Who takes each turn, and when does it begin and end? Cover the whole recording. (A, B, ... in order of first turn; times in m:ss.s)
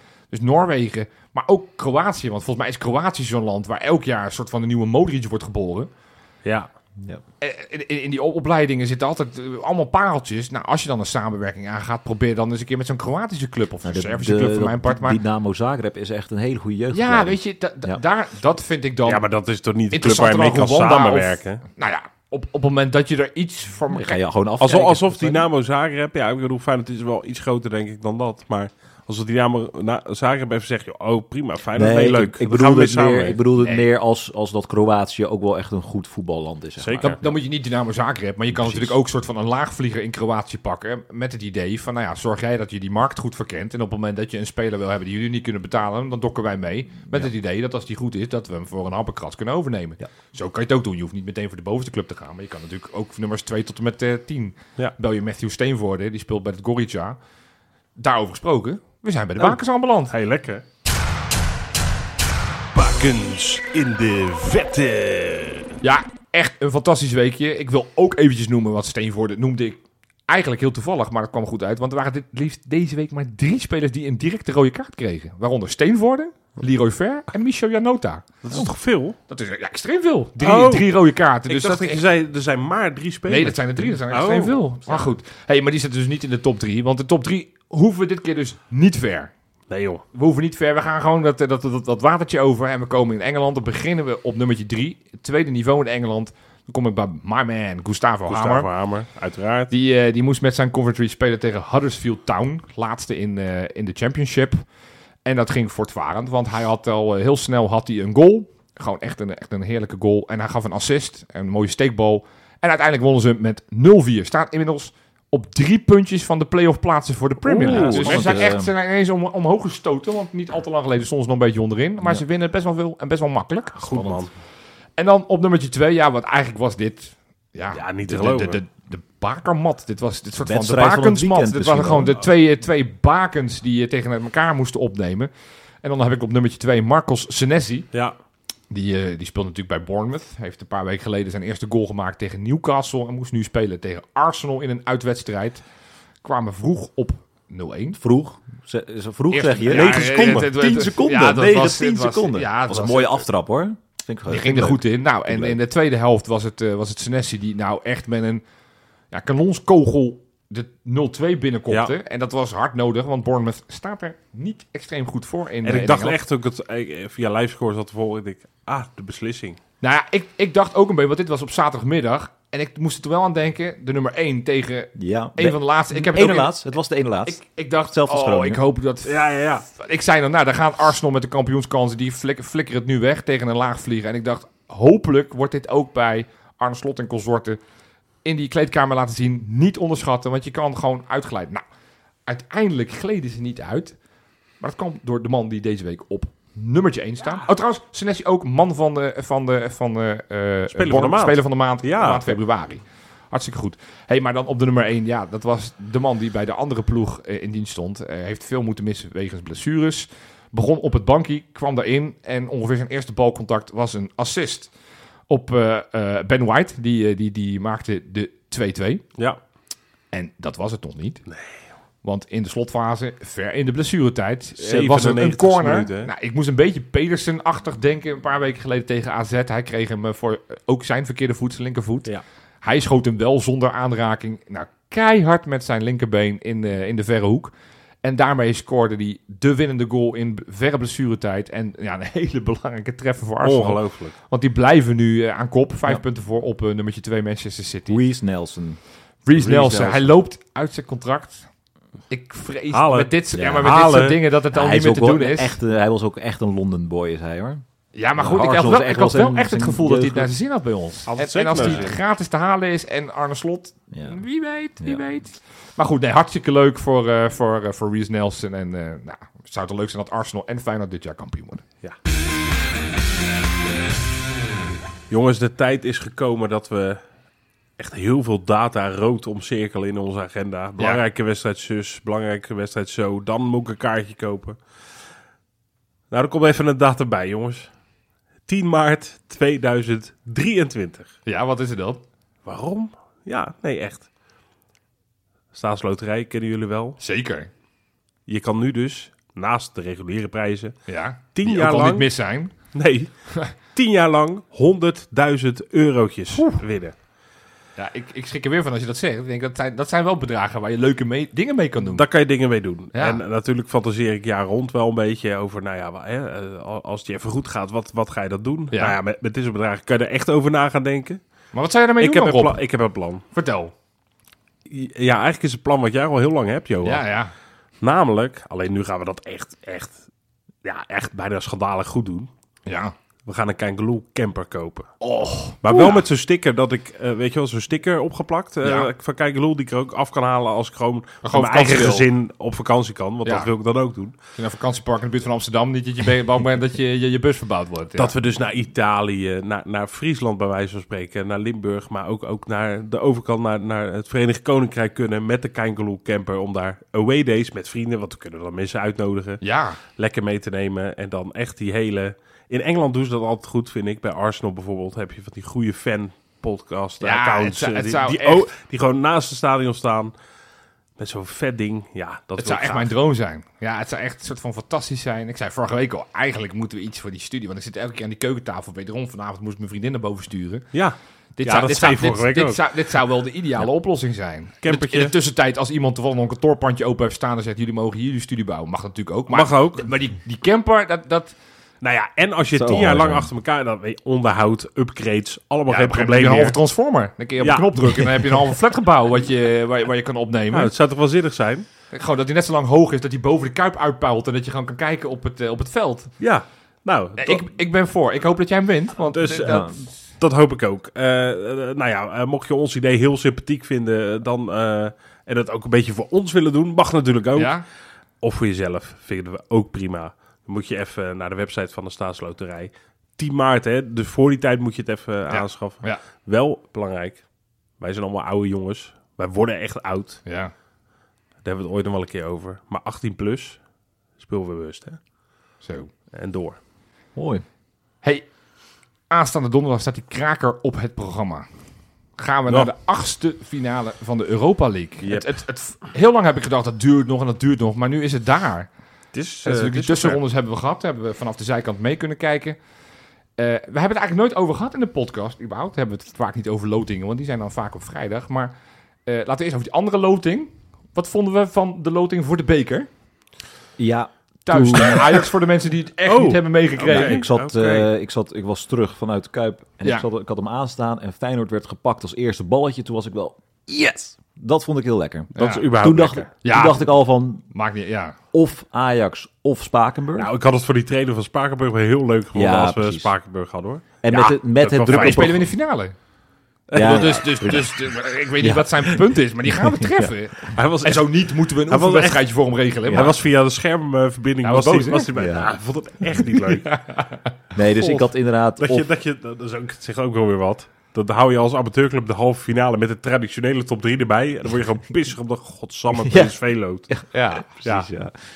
0:00.3-0:05.9 A
0:06.4-0:06.7 B
0:07.4-0:15.2 A
0:13.8-0:18.0 C
0:16.9-0:19.2 A
0:19.0-0:21.6 B
0:19.9-0:24.2 A
0:23.9-0:25.5 C
0:24.6-0:33.4 B
0:31.8-0:37.4 C
0:33.6-0:33.9 A
0:36.8-0:37.2 B
0:37.0-0:57.2 A
0:38.5-0:39.0 C
0:58.0-1:00.1 A
1:00.1-1:00.6 B
1:02.7-1:05.7 B
1:05.8-1:18.3 A
1:18.4-1:19.2 B
1:19.3-1:22.0 A
1:20.4-1:20.9 B
1:21.5-1:25.0 B
1:23.3-1:29.3 A
1:29.7-1:30.0 B
1:30.1-1:38.7 A
1:38.3-1:39.7 B
1:39.7-1:44.6 A
1:45.2-2:04.2 A
1:57.4-1:58.7 C
1:57.6-1:58.5 B
2:03.8-2:04.3 B
2:05.0-2:15.3 A
2:07.7-2:08.6 B
2:10.4-2:12.2 C
2:15.8-2:17.9 A
2:18.7-2:25.6 A
2:26.2-2:28.0 A
2:28.0-2:35.6 C
2:29.3-2:33.3 A
2:29.7-2:30.5 B
2:34.3-2:38.4 A
2:39.1-2:46.2 A
2:45.6-2:49.6 B
2:49.8-2:56.6 A
2:55.0-2:58.6 C
2:57.2-3:07.6 A
2:59.0-2:59.6 B
3:08.2-3:11.6 A
3:12.3-3:14.0 A
3:14.6-3:34.7 A
3:20.7-3:22.3 B
3:35.3-3:39.0 A
3:40.1-3:41.2 A
3:41.3-3:41.6 B
3:42.0-3:52.1 A
3:44.6-3:46.1 B
3:52.6-3:57.5 A
3:58.0-4:08.0 A
4:03.4-4:04.2 B
4:07.9-4:08.8 C
4:09.2-4:11.5 A
4:09.3-4:10.2 C
4:12.1-4:15.6 A
4:12.7-4:14.2 B
4:13.3-4:13.8 C
4:14.5-4:17.6 C
4:17.9-4:31.6 A
4:18.2-4:20.4 C
4:21.1-4:22.0 B
4:23.9-4:24.2 C
4:35.1-4:37.0 B
4:37.8-4:44.6 B
4:46.1-4:47.7 B
4:48.5-4:51.1 B
4:51.2-4:52.0 A
4:52.4-4:54.1 B
4:55.5-4:57.0 B
4:57.0-4:57.5 A
4:58.3-5:06.9 B
5:00.9-5:02.5 A
5:07.8-5:12.0 A
5:11.8-5:21.2 B
5:12.9-5:13.2 A
5:18.7-5:19.0 A
5:21.5-5:22.6 A
5:22.0-5:23.2 B
5:23.3-5:23.7 A
5:24.7-5:27.0 B
5:26.8-5:27.3 A
5:27.8-5:30.0 B
5:30.6-5:32.3 B
5:32.6-5:32.9 A
5:33.2-5:34.9 B
5:35.0-5:36.0 A
5:35.6-5:44.1 B
5:38.6-5:38.9 A
5:41.2-5:42.1 A
5:43.2-5:43.5 A
5:44.3-5:48.1 A
5:48.0-5:59.4 B
5:59.4-5:59.8 A
5:59.9-6:10.1 B
6:07.0-6:08.5 A
6:11.0-6:12.9 B
6:12.4-6:20.7 A
6:20.7-6:22.7 B
6:21.4-6:31.3 A
6:24.6-6:25.1 B
6:29.3-6:29.8 B
6:31.8-6:36.6 B
6:32.5-6:33.3 C
6:35.7-6:40.7 A
6:37.4-6:38.3 B
6:40.5-6:41.6 B
6:41.9-6:46.1 A
6:46.2-6:47.4 B
6:47.2-6:49.9 A
6:49.1-6:57.6 B
6:57.3-6:57.6 A
6:58.2-7:07.2 B
7:05.3-7:06.0 A
7:07.8-7:10.2 B
7:10.2-7:10.5 A
7:11.4-7:13.6 B
7:14.2-7:15.0 B
7:15.6-7:15.9 A
7:16.1-7:16.6 B
7:17.1-7:17.4 C
7:19.1-7:21.4 A
7:22.2-7:28.7 A
7:25.0-7:25.3 B
7:29.1-7:30.2 B
7:29.4-7:32.6 A
7:33.4-7:38.5 A
7:39.0-7:42.9 A
7:43.8-7:45.3 C
7:44.4-7:47.2 A
7:46.1-7:47.9 B
7:46.9-7:57.4 C
7:55.3-7:56.3 B
7:55.4-7:55.7 A
7:56.4-7:56.8 A
7:57.5-7:58.2 A
7:58.3-8:00.3 C
8:00.1-8:05.4 B
8:02.3-8:03.1 C
8:04.0-8:05.4 C
8:04.9-8:05.9 A
8:06.7-8:07.2 B
8:06.7-8:10.1 C
8:06.7-8:13.2 A
8:10.5-8:12.3 B
8:12.9-8:13.2 C
8:12.9-8:16.8 B
8:14.4-8:15.1 A
8:15.1-8:15.5 C
8:16.5-8:17.3 A
8:17.5-8:18.8 C
8:18.6-8:26.9 B
8:25.9-8:26.4 C
8:26.9-8:28.1 C
8:27.1-8:27.4 A
8:27.6-8:27.9 B